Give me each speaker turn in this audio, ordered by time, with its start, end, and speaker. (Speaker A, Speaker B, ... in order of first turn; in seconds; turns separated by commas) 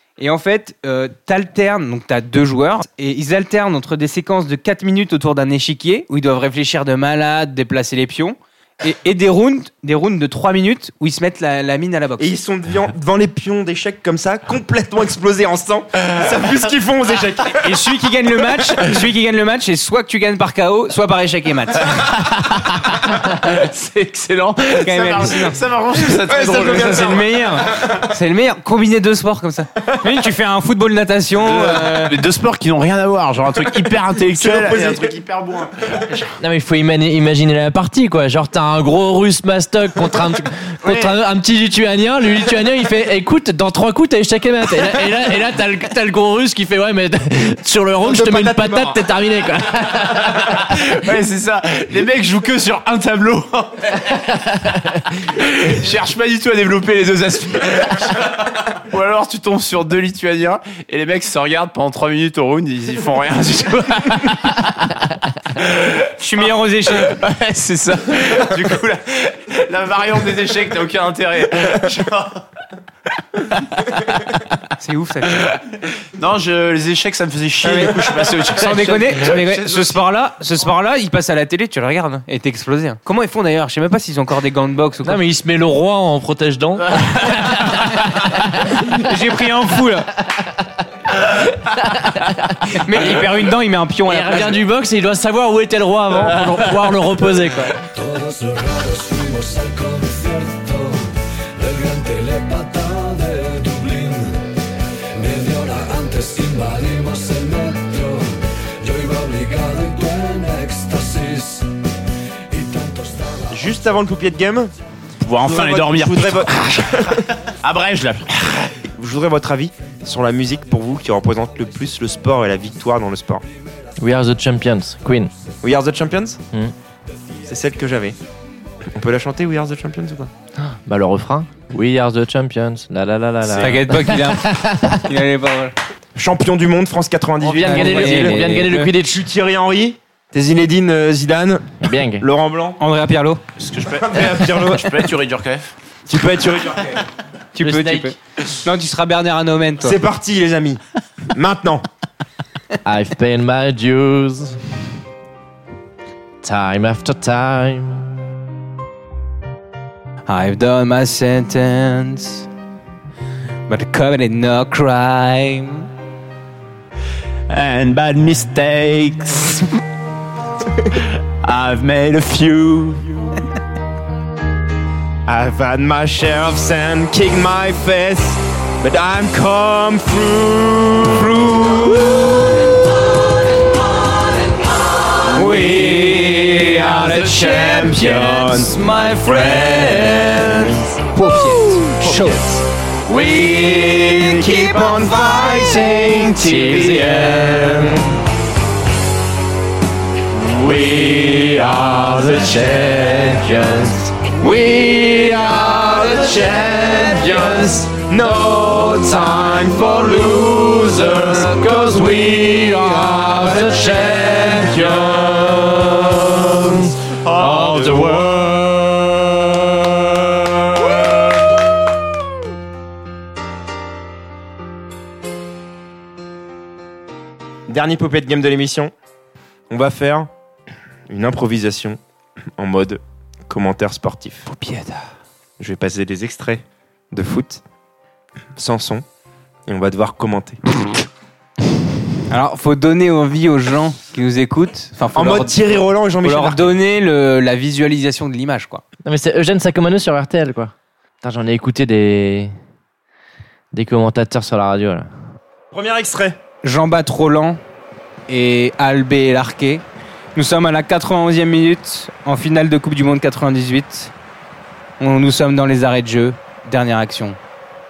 Speaker A: 0.2-12.3, Speaker B: 12.2-17.8, Speaker A: 17.6-22.1, Speaker C: 21.9-27.2, Speaker A: 24.8-25.6, Speaker B: 26.1-27.9, Speaker A: 26.7-32.1, Speaker C: 31.4-36.3, Speaker B: 34.3-35.1, Speaker D: 36.4-50.6, Speaker C: 40.9-41.1, Speaker B: 48.0-49.0, Speaker C: 50.3-54.4, Speaker C: 55.1-64.9, Speaker C: 65.6-72.5, Speaker A: 66.2-67.2, Speaker C: 73.4-74.2, Speaker A: 74.8-75.5, Speaker C: 75.4-80.0, Speaker A: 77.6-85.2, Speaker D: 85.0-89.0, Speaker A: 88.9-90.1, Speaker D: 92.0-92.8, Speaker A: 92.7-94.6, Speaker D: 94.1-97.8, Speaker E: 98.0-101.0, Speaker E: 101.6-104.4, Speaker E: 105.2-111.7, Speaker E: 112.5-113.5, Speaker B: 113.5-114.7, Speaker C: 115.2-118.8, Speaker B: 115.4-117.2, Speaker B: 118.9-123.4, Speaker D: 124.0-125.3, Speaker B: 125.6-126.4, Speaker B: 127.5-128.2, Speaker B: 128.9-130.3, Speaker D: 130.6-134.9, Speaker B: 133.4-133.8, Speaker A: 133.6-135.7, Speaker B: 136.2-142.8, Speaker D: 137.4-139.2, Speaker A: 137.6-138.9, Speaker D: 141.8-142.3, Speaker A: 142.8-143.4, Speaker C: 143.6-145.7, Speaker B: 144.0-145.1, Speaker B: 146.1-147.0, Speaker A: 147.6-150.0, Speaker D: 147.6-148.1, Speaker B: 149.8-151.8, Speaker D: 152.8-154.6, Speaker D: 156.4-158.1, Speaker A: 160.3-162.4, Speaker A: 163.7-165.9, Speaker C: 167.5-169.8, Speaker C: 171.0-173.0, Speaker B: 175.3-182.6, Speaker A: 185.2-192.4, Speaker C: 185.5-190.8, Speaker B: 186.9-188.3, Speaker C: 193.1-198.0, Speaker B: 193.9-197.9, Speaker D: 196.4-197.6, Speaker C: 200.3-203.4, Speaker D: 201.7-205.3, Speaker C: 205.3-207.9, Speaker B: 205.6-206.5, Speaker D: 206.3-207.8, Speaker B: 207.9-211.7, Speaker C: 211.2-211.6, Speaker D: 211.6-216.8, Speaker C: 214.1-214.6, Speaker C: 217.1-221.3, Speaker D: 217.4-218.1, Speaker B: 217.8-218.0, Speaker B: 227.7-228.9, Speaker B: 229.7-230.3, Speaker B: 231.1-232.0, Speaker B: 232.6-234.5, Speaker A: 234.5-235.1, Speaker B: 235.6-237.6, Speaker B: 238.6-239.1, Speaker B: 239.7-240.9, Speaker A: 242.3-245.7, Speaker B: 245.1-246.8, Speaker A: 246.2-248.8, Speaker D: 249.1-252.5, Speaker D: 253.7-255.1, Speaker B: 255.7-256.4, Speaker A: 256.6-257.6, Speaker A: 258.3-259.8, Speaker A: 260.4-264.1, Speaker A: 265.0-267.4